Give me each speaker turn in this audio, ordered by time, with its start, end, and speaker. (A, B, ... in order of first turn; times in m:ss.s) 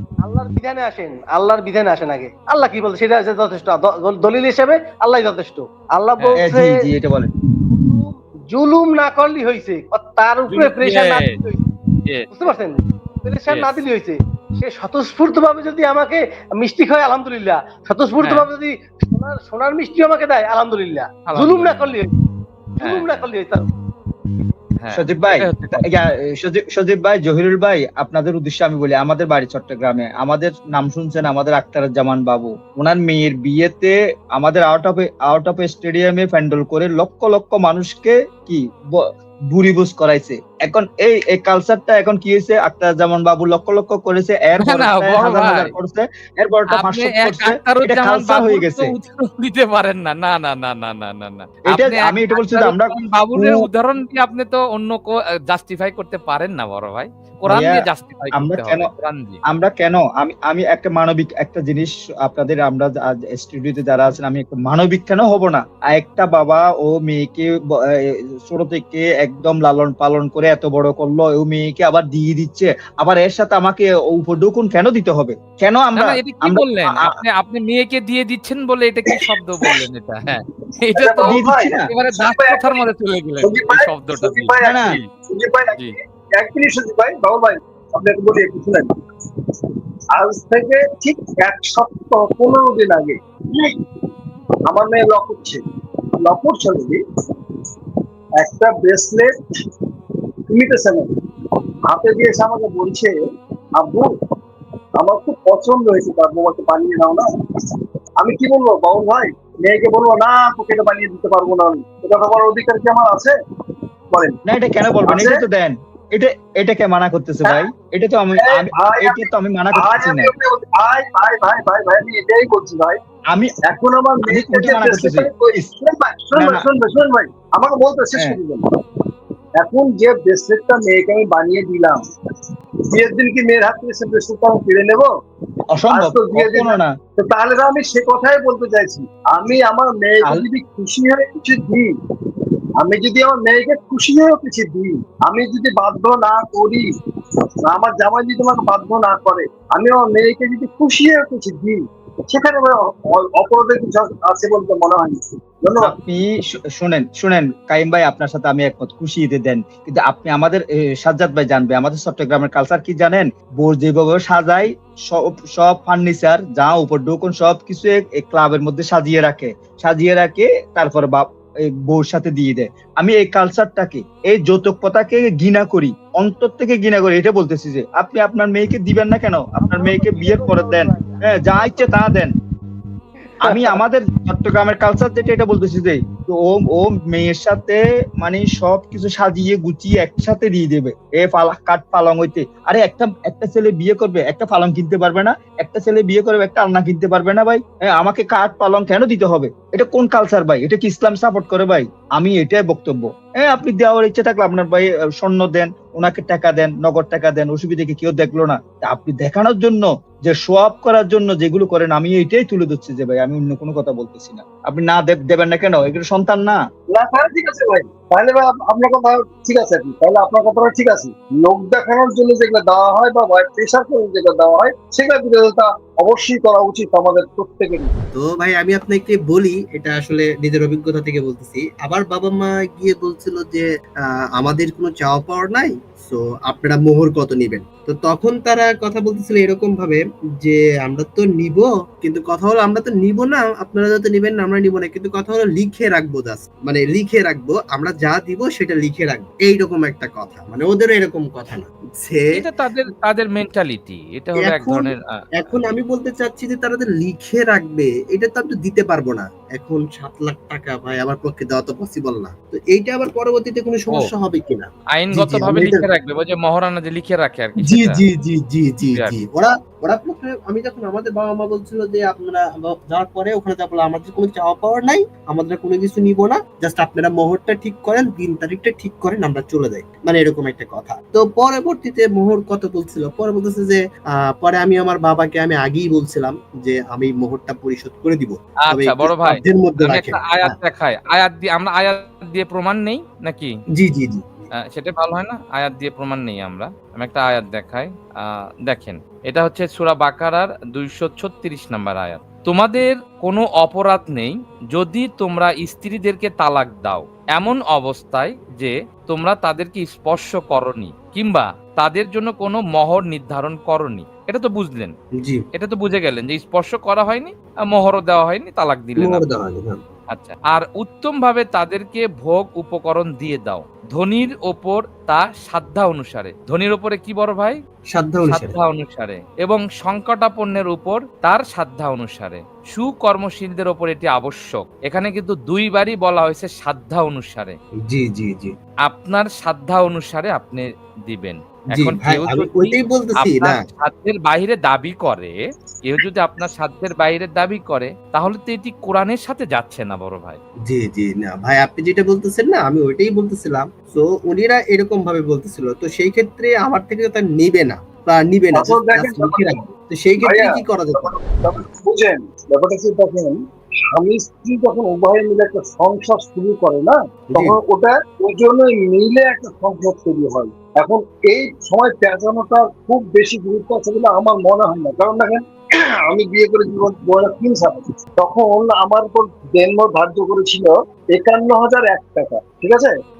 0:00.2-0:06.8 A
0:06.4-0:07.3 B
0:07.6-0:11.6 A
0:10.5-0:11.4 C
0:12.0-0:12.3 C
0:12.3-0:22.1 A
0:13.5-0:13.8 C
0:18.2-0:18.5 C
0:21.3-0:22.0 C
0:22.8-0:23.7 A
0:22.8-0:23.3 C
0:24.8-0:25.9 C
0:24.9-0:48.9 B
0:44.6-0:45.7 C
0:46.7-0:59.4 C
0:51.7-0:53.6 B
0:57.5-0:58.9 B
0:59.5-1:07.5 B
1:08.4-1:17.1 B
1:16.0-1:25.1 C
1:19.1-1:19.8 D
1:21.0-1:22.8 D
1:21.3-1:21.9 B
1:23.4-1:28.9 D
1:24.6-1:24.9 B
1:30.1-1:33.8 D
1:34.6-1:35.6 D
1:36.2-1:37.0 D
1:38.4-1:39.3 D
1:40.5-1:41.1 D
1:41.9-1:43.1 D
1:43.8-1:44.1 D
1:45.0-1:47.3 D
1:48.2-1:53.3 D
1:54.1-1:54.4 D
1:54.5-2:00.3 B
1:55.0-1:55.4 D
1:57.4-1:57.7 D
1:58.4-2:03.0 D
2:03.7-2:08.6 D
2:04.3-2:05.3 B
2:06.3-2:06.6 B
2:09.6-2:15.1 D
2:15.7-2:16.9 B
2:15.9-2:21.9 D
2:22.8-2:26.8 D
2:27.6-2:35.9 D
2:35.8-3:02.3 B
2:59.6-3:02.1 A
3:03.2-3:03.8 A
3:03.4-3:36.6 B
3:36.9-3:47.9 D
3:48.1-3:53.7 E
3:54.3-4:12.4 E
4:12.3-4:15.8 C
4:14.4-4:25.8 E
4:25.0-4:28.0 C
4:27.6-4:50.5 E
4:48.6-4:53.5 C
4:53.8-4:54.5 E
4:54.6-4:57.9 C
4:58.6-5:14.9 C
5:15.2-5:15.4 E
5:15.5-5:19.2 C
5:19.0-5:19.8 E
5:20.1-5:27.6 C
5:27.9-5:28.6 E
5:28.3-5:37.6 C
5:37.9-5:38.5 E
5:38.8-5:45.3 C
5:41.7-5:43.6 E
5:45.8-5:50.4 C
5:50.6-6:01.6 E
5:58.5-5:59.6 D
6:00.2-6:03.4 D
6:03.9-6:15.4 D
6:16.1-6:22.9 D